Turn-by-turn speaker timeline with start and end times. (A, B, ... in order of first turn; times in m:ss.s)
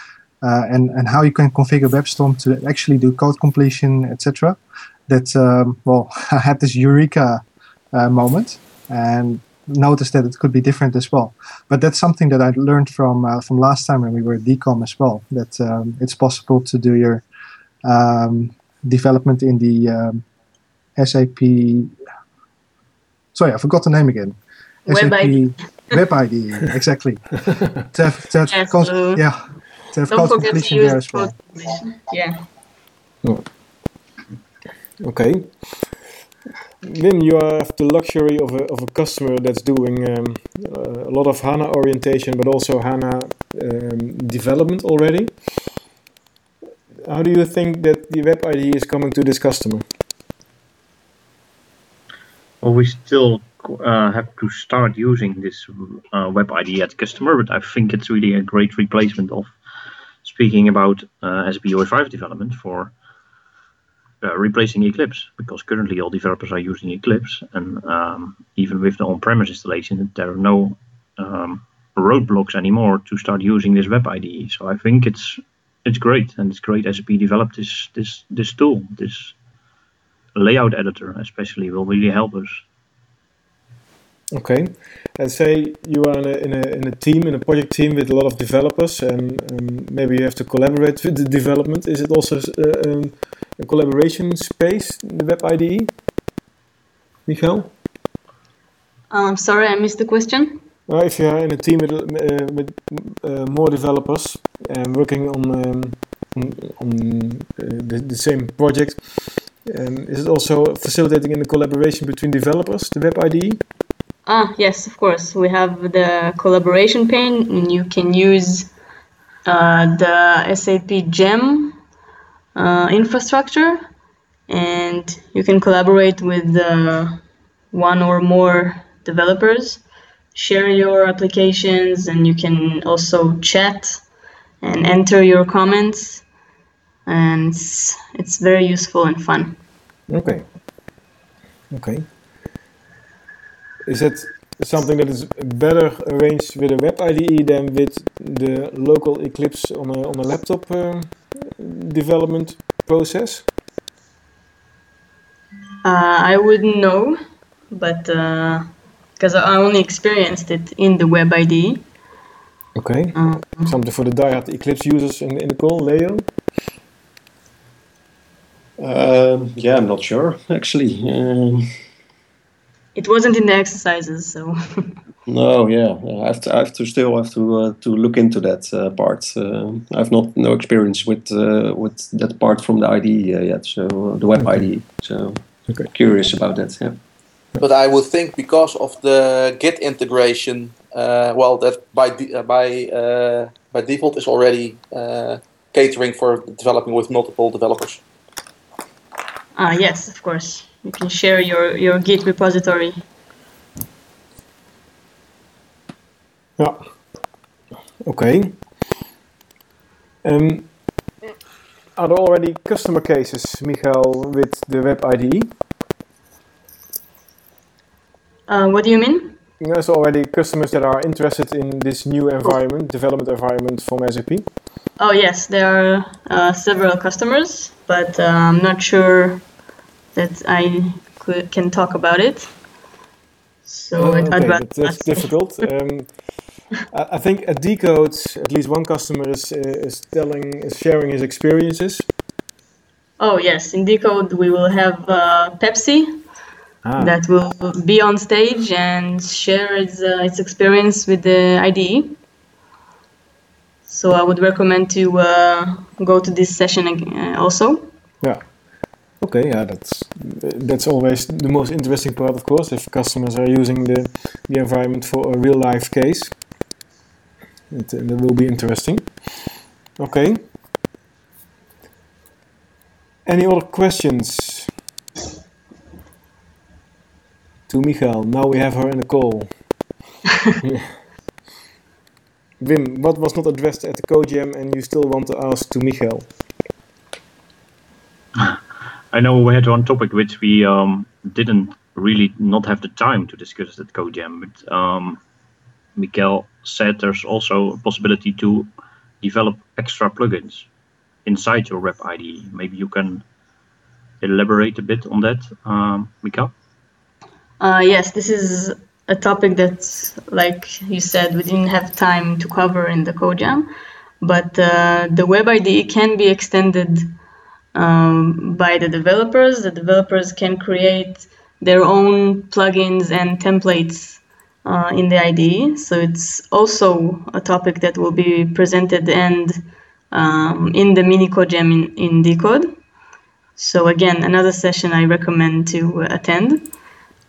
0:00.4-0:17.2 A
0:17.8-0:20.2 A
0:21.0-0:21.9 A
0:23.3-0:31.4 A
0:24.9-0:26.0 B
0:28.5-0:29.2 B
0:30.1-0:32.4 B
0:33.2-0:33.5 C
0:35.0-0:36.0 C
0:36.8-0:45.6 C
0:47.0-0:49.8 C
0:52.6-0:59.6 D
1:00.2-1:02.9 D
1:04.2-1:19.4 D
1:20.4-1:22.6 D
1:24.3-1:35.9 C
1:37.3-1:37.7 C
1:39.1-1:40.6 B
1:40.9-1:53.6 C
1:54.3-1:58.7 B
1:59.5-2:01.8 B
2:02.6-2:03.9 B
2:04.5-2:09.8 B
2:10.3-2:14.0 B
2:14.6-2:16.2 B
2:17.1-2:19.6 B
2:20.1-2:20.5 C
2:21.7-2:22.1 C
2:23.8-2:33.5 C
2:35.8-2:37.2 B
2:37.7-2:41.8 B
2:42.8-2:46.3 C
2:43.2-2:43.7 B
2:48.8-2:51.8 E
2:53.0-2:55.0 B
2:55.3-3:07.0 E
3:07.6-3:18.0 F
3:19.6-3:23.0 B
3:28.0-3:28.7 C
3:30.2-3:30.7 C
3:32.0-3:35.5 C
3:38.5-3:39.4 B
3:39.6-3:44.4 C
3:45.0-3:49.4 B
3:50.2-3:52.5 B
3:53.7-3:55.4 B
3:54.0-4:02.1 C
4:03.2-4:06.2 B
4:06.8-4:07.2 C
4:07.0-4:12.2 B
4:13.9-4:17.9 B
4:18.2-4:18.6 C
4:19.2-4:26.4 C
4:27.7-4:30.5 C
4:33.2-4:34.7 C
4:37.7-4:39.6 C
4:42.6-4:46.3 C
4:49.1-4:55.2 D
4:56.0-4:58.7 D
4:59.2-5:00.7 D
5:01.2-5:03.2 D
5:04.2-5:06.5 D
5:07.6-5:13.7 B
5:14.2-5:17.1 B
5:17.7-5:32.7 B
5:33.6-5:36.7 B